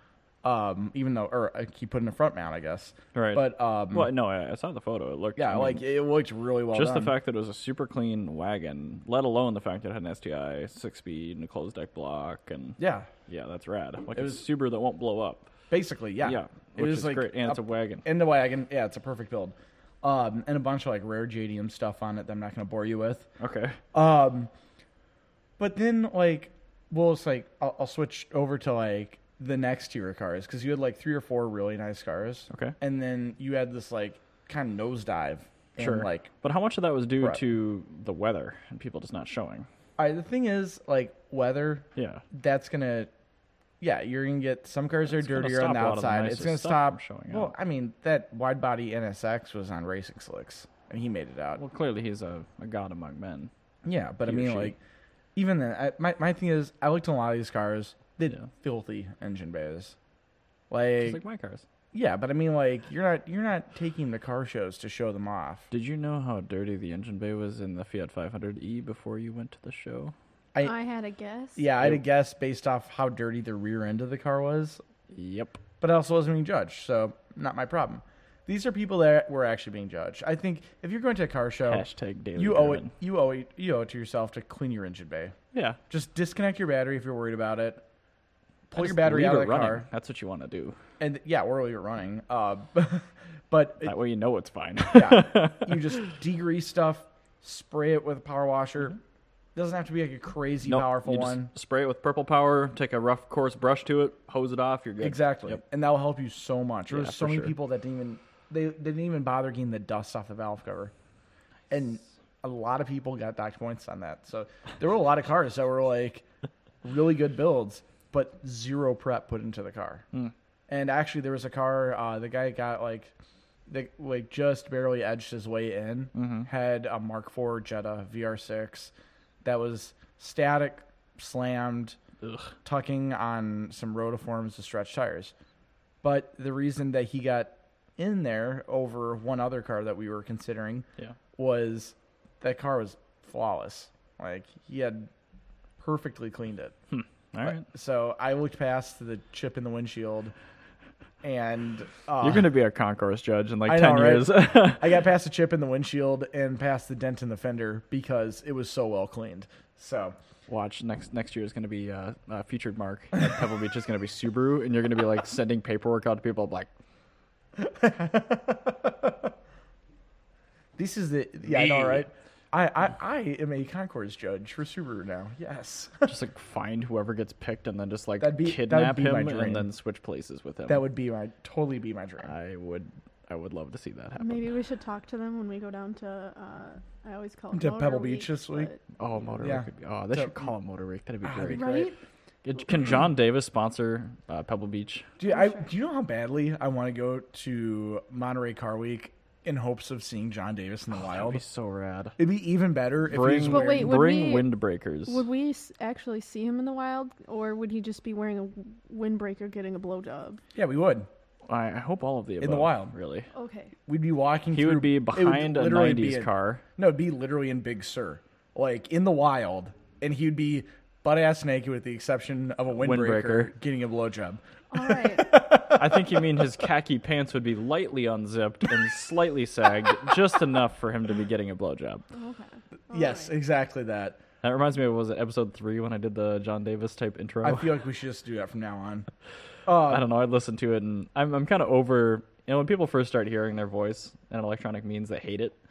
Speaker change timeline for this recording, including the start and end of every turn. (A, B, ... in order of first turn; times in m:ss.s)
0:00.4-0:04.1 A
0:03.2-0:05.8 B
0:05.4-0:07.1 A
0:06.7-0:15.5 B
0:12.8-0:13.1 A
0:14.2-0:14.4 A
0:15.7-0:23.3 A
0:16.2-0:18.1 B
0:23.4-0:23.8 B
0:23.9-0:24.5 A
0:25.6-0:36.3 A
0:32.5-0:32.8 B
0:35.8-0:39.7 B
0:40.0-0:43.1 A
0:42.0-0:42.2 B
0:43.8-0:51.6 A
0:45.1-0:47.5 B
0:51.6-0:53.5 B
0:53.8-0:54.8 A
0:54.2-0:54.7 B
0:55.4-1:00.0 A
1:00.7-1:01.2 A
1:01.0-1:01.6 B
1:01.9-1:05.7 A
1:05.7-1:10.1 B
1:10.6-1:11.7 C
1:11.6-1:14.8 A
1:15.1-1:15.6 B
1:15.8-1:21.8 A
1:21.6-1:22.9 B
1:22.4-1:25.4 A
1:25.5-1:25.8 B
1:25.9-1:27.8 A
1:28.7-1:29.9 A
1:28.7-1:30.8 B
1:31.0-1:33.9 A
1:33.8-1:36.1 B
1:34.9-1:39.0 A
1:39.6-1:41.5 A
1:40.7-1:45.6 B
1:45.0-1:50.9 A
1:46.9-1:47.5 B
1:51.7-1:56.2 A
1:56.8-2:00.1 A
2:00.7-2:03.1 A
2:03.7-2:08.9 A
2:06.1-2:06.5 B
2:09.4-2:12.0 A
2:12.2-2:12.5 B
2:12.6-2:15.3 A
2:16.0-2:25.1 A
2:25.8-2:26.8 A
2:26.9-2:27.6 B
2:27.4-2:30.3 A
2:31.2-2:32.5 A
2:32.2-2:34.9 B
2:33.7-2:40.2 A
2:40.5-2:46.7 B
2:47.6-2:49.3 A
2:50.8-2:56.1 A
2:51.5-2:52.1 B
2:56.1-3:00.8 B
2:58.2-2:59.7 A
3:00.7-3:02.3 A
3:02.2-3:04.5 B
3:04.2-3:08.8 C
3:07.5-3:08.7 A
3:09.0-3:11.7 B
3:09.4-3:10.4 A
3:11.2-3:12.0 A
3:11.5-3:12.0 C
3:12.4-3:15.1 B
3:15.2-3:21.4 A
3:15.2-3:15.7 C
3:20.9-3:22.2 B
3:22.2-3:24.0 A
3:23.1-3:25.2 B
3:23.5-3:30.4 C
3:30.6-3:31.1 A
3:31.5-3:33.3 B
3:32.4-3:32.9 A
3:33.3-3:33.7 C
3:33.9-3:46.5 A
3:34.5-3:36.6 B
3:42.8-3:43.5 B
3:44.7-3:45.4 C
3:45.6-3:52.0 B
3:52.1-3:53.3 C
3:52.9-3:54.2 A
3:54.4-3:57.8 B
3:57.4-3:59.1 A
3:59.7-4:00.1 A
3:59.8-4:05.6 B